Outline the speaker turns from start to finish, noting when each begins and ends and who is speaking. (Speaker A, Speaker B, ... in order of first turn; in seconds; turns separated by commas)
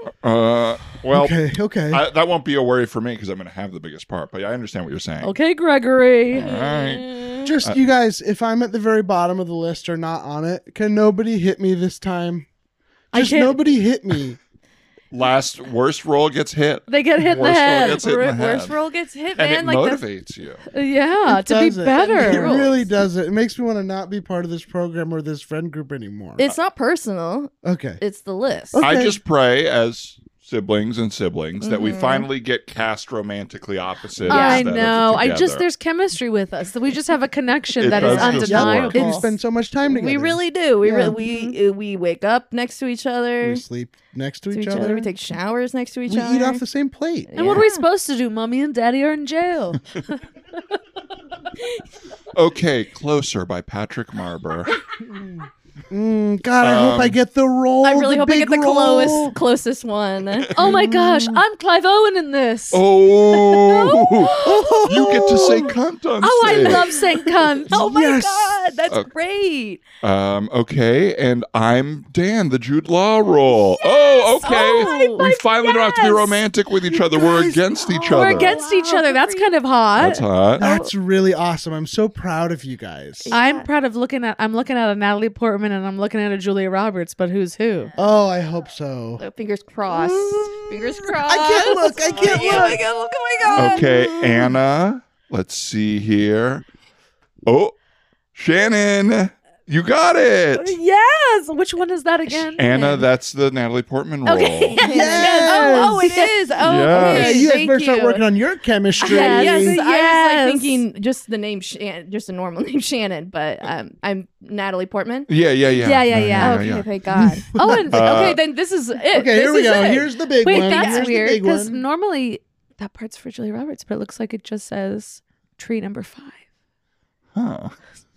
Speaker A: 0.2-1.4, Speaker B: 1.1-2.0, Speaker A: 1.9-5.3, Speaker C: 5.2-6.5, Speaker A: 6.3-7.1, Speaker D: 6.4-7.5, Speaker B: 7.4-12.5, Speaker B: 13.1-14.4, Speaker C: 13.1-13.6, Speaker A: 15.1-18.7, Speaker C: 16.9-18.1, Speaker D: 17.8-20.0, Speaker A: 19.4-20.6, Speaker C: 20.7-22.6, Speaker B: 21.3-26.5, Speaker D: 21.9-22.9, Speaker D: 26.4-28.8, Speaker B: 27.6-28.0, Speaker B: 28.7-29.2, Speaker A: 28.8-35.6, Speaker D: 31.6-32.3, Speaker D: 34.2-34.7, Speaker C: 34.3-39.3, Speaker A: 37.8-39.2, Speaker D: 38.0-38.5, Speaker B: 38.0-41.2, Speaker D: 39.9-43.6, Speaker C: 41.0-41.6, Speaker B: 43.4-45.1, Speaker D: 44.5-46.6, Speaker B: 46.1-47.6, Speaker D: 47.3-47.8, Speaker C: 47.4-50.0, Speaker A: 52.3-54.8, Speaker B: 55.0-59.4, Speaker A: 56.6-57.2, Speaker D: 57.8-60.5, Speaker C: 60.5-64.8, Speaker B: 60.6-61.4, Speaker A: 62.7-66.9, Speaker B: 64.3-65.7, Speaker C: 66.2-67.8, Speaker D: 66.4-67.0, Speaker B: 67.7-68.7, Speaker D: 67.7-69.8, Speaker A: 70.0-78.5, Speaker D: 73.8-76.3, Speaker C: 74.4-76.4, Speaker B: 77.1-77.6, Speaker D: 77.8-79.5, Speaker C: 78.1-80.9, Speaker A: 80.0-80.6, Speaker B: 80.6-83.3, Speaker D: 83.2-83.7, Speaker C: 83.3-87.9, Speaker B: 88.0-89.2, Speaker D: 89.2-94.5, Speaker B: 89.9-92.8, Speaker C: 92.3-92.6, Speaker A: 93.5-96.6, Speaker A: 97.5-97.8, Speaker A: 98.3-100.8, Speaker C: 100.5-102.7, Speaker A: 102.6-104.8, Speaker D: 102.6-103.1, Speaker C: 104.2-107.4, Speaker D: 104.7-108.2, Speaker B: 104.8-106.1, Speaker A: 106.6-107.4, Speaker B: 106.9-109.8, Speaker D: 109.0-115.3, Speaker C: 109.0-110.8, Speaker A: 115.3-116.9, Speaker C: 115.7-116.6, Speaker B: 116.1-116.5, Speaker D: 116.4-121.3, Speaker B: 117.1-117.9, Speaker C: 117.5-118.3, Speaker A: 117.9-118.4, Speaker B: 119.1-121.8, Speaker C: 120.4-126.4, Speaker A: 127.3-127.8